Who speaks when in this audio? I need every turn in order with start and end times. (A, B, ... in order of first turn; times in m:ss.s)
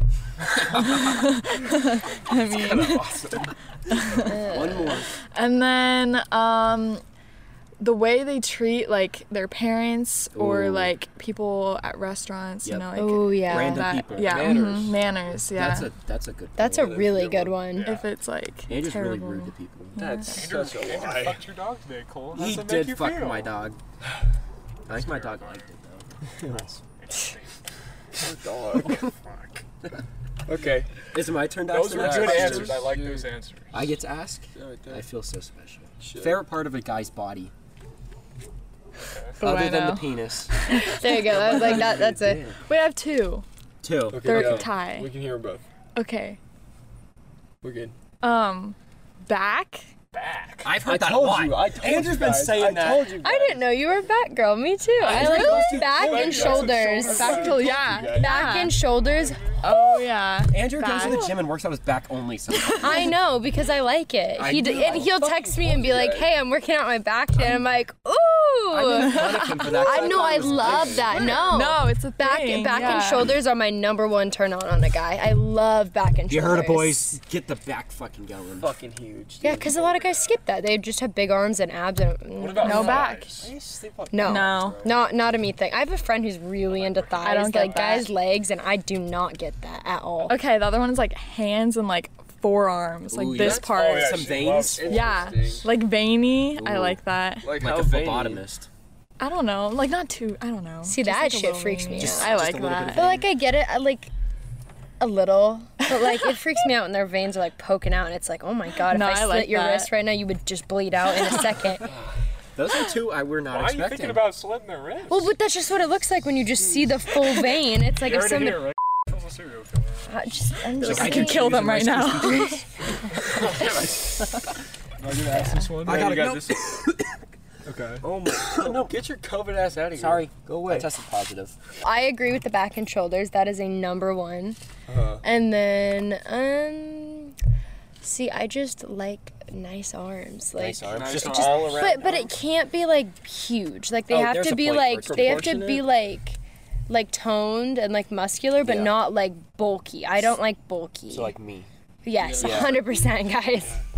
0:00.7-0:03.2 A
0:02.5-0:03.5 B
0:03.9-0:04.4 A
0:04.2-0:05.0 C
0:04.2-0:05.1 D
0:05.3-0:07.0 A
0:07.8-0:15.9 A
0:10.3-0:10.9 D
0:12.6-0:12.9 D
0:12.9-0:14.0 C
0:13.4-0:14.7 D
0:14.1-0:15.0 B
0:15.5-0:17.0 D
0:16.6-0:18.0 C
0:16.7-0:17.6 B
0:17.7-0:18.1 E
0:17.8-0:20.5 A
0:18.7-0:20.0 D
0:20.0-0:21.4 B
0:20.3-0:23.5 E
0:22.3-0:23.8 D
0:24.8-0:26.0 D
0:24.9-0:25.7 E
0:26.4-0:27.6 E
0:28.1-0:29.0 B
0:28.8-0:29.6 E
0:30.4-0:30.9 B
0:31.1-0:32.8 D
0:31.7-0:33.8 E
0:31.9-0:33.3 B
0:33.7-0:37.5 D
0:34.5-0:35.0 B
0:36.0-0:36.4 B
0:39.1-0:39.4 E
0:39.4-0:40.5 D
0:39.4-0:41.0 A
0:40.7-0:42.4 C
0:41.3-0:42.6 B
0:42.6-0:43.4 A
0:43.8-0:44.7 D
0:44.1-0:45.6 B
0:44.2-0:45.1 A
0:45.9-0:46.4 A
0:47.6-0:47.9 B
0:48.2-0:49.8 A
0:50.1-0:50.7 E
0:50.6-0:53.1 D
0:50.8-0:53.6 B
0:53.2-0:57.5 C
0:55.0-0:57.8 E
0:55.0-0:56.0 D
0:55.0-0:58.3 B
0:55.3-0:55.7 A
0:57.1-0:58.8 A
0:58.1-0:59.4 C
0:59.0-0:59.6 E
0:59.6-1:01.4 A
1:00.5-1:02.9 D
1:02.8-1:17.1 C
1:04.4-1:05.2 D
1:04.6-1:06.3 B
1:08.7-1:11.4 D
1:09.1-1:09.7 A
1:09.8-1:11.6 B
1:11.4-1:13.3 A
1:16.3-1:18.7 D
1:18.6-1:20.2 B
1:19.4-1:23.2 C
1:22.4-1:23.5 E
1:22.6-1:23.3 A
1:23.3-1:25.0 B
1:24.1-1:30.4 C
1:24.2-1:24.8 A
1:26.6-1:28.0 E
1:27.2-1:28.1 A
1:30.3-1:34.3 A
1:33.1-1:35.0 D
1:33.6-1:35.2 E
1:34.3-1:35.7 B
1:34.8-1:37.5 A
1:36.5-1:38.7 D
1:37.4-1:38.4 B
1:39.2-1:43.2 A
1:40.8-1:42.4 C
1:42.0-1:43.2 D
1:42.9-1:44.1 C
1:45.0-1:51.9 C
1:48.8-1:49.9 A
1:52.6-1:54.3 D
1:53.5-1:55.3 E
1:55.1-1:58.6 C
1:58.0-2:00.2 E
2:00.1-2:01.6 C
2:00.7-2:02.6 A
2:00.8-2:02.6 D
2:03.2-2:03.8 E
2:03.5-2:03.8 D
2:03.5-2:03.8 B
2:05.0-2:06.8 E
2:05.4-2:06.3 B
2:05.8-2:07.2 D
2:07.6-2:08.0 E
2:08.0-2:10.9 B
2:08.3-2:09.0 D
2:09.9-2:11.5 D
2:11.8-2:14.6 C
2:14.9-2:15.2 B
2:15.2-2:17.4 C
2:18.0-2:20.9 C
2:20.6-2:22.1 D
2:20.9-2:22.3 B
2:20.9-2:22.2 E
2:21.7-2:31.3 C
2:24.1-2:25.8 D
2:25.0-2:25.8 B
2:28.6-2:29.0 D
2:31.1-2:31.7 D
2:32.0-2:33.8 C
2:32.2-2:32.8 B
2:32.3-2:32.8 D